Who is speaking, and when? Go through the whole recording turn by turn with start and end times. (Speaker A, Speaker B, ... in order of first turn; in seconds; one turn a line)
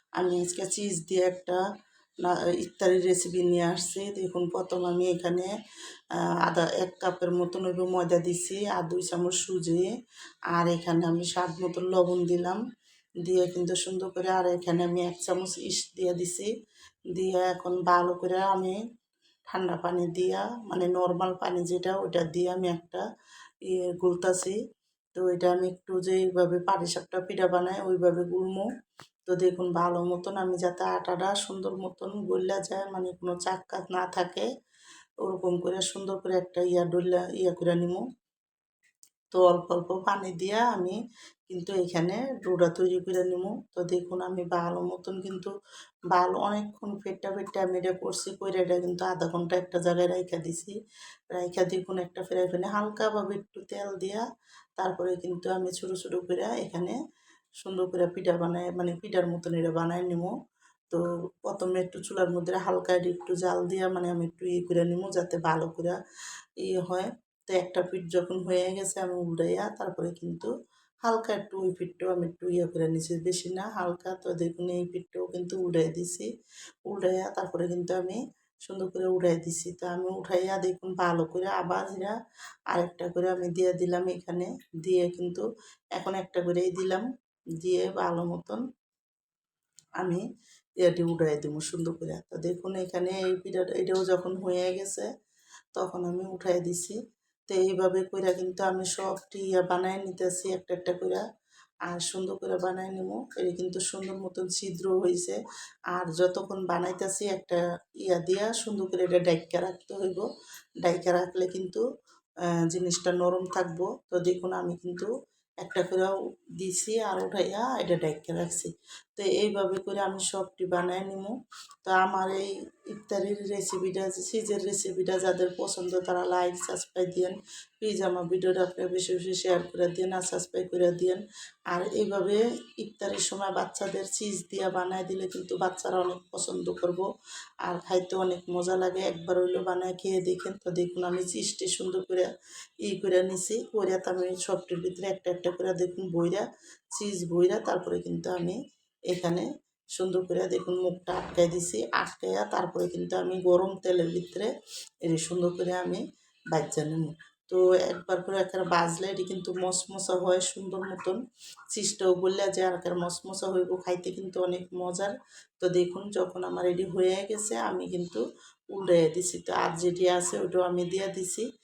Speaker A: 0.2-1.6
Speaker A: 2.2-5.5
Speaker A: 6.4-9.9
Speaker A: 10.5-12.6
Speaker A: 13.2-16.5
Speaker A: 17.1-18.8
Speaker A: 19.5-23.0
Speaker A: 23.7-24.6
Speaker A: 25.2-28.7
Speaker A: 29.3-34.5
Speaker A: 35.2-38.0
Speaker A: 39.3-41.0
Speaker A: 41.5-45.5
Speaker A: 46.1-50.7
Speaker A: 51.3-54.2
Speaker A: 54.8-57.0
Speaker A: 57.6-60.3
Speaker A: 60.9-66.0
Speaker A: 66.6-70.5
Speaker A: 71.0-76.3
Speaker A: 76.9-82.1
Speaker A: 82.7-87.0
Speaker A: 87.6-88.6
Speaker A: 90.8-95.1
Speaker A: 95.8-97.0
Speaker A: 97.5-101.2
Speaker A: 101.9-105.4
Speaker A: 105.9-110.2
Speaker A: 110.8-111.8
Speaker A: 112.7-115.1
Speaker A: 115.6-137.0
Speaker A: 137.6-142.3
Speaker A: 142.8-148.6
Speaker A: 149.1-154.5
Speaker A: 155.0-161.2
Speaker A: 161.7-171.4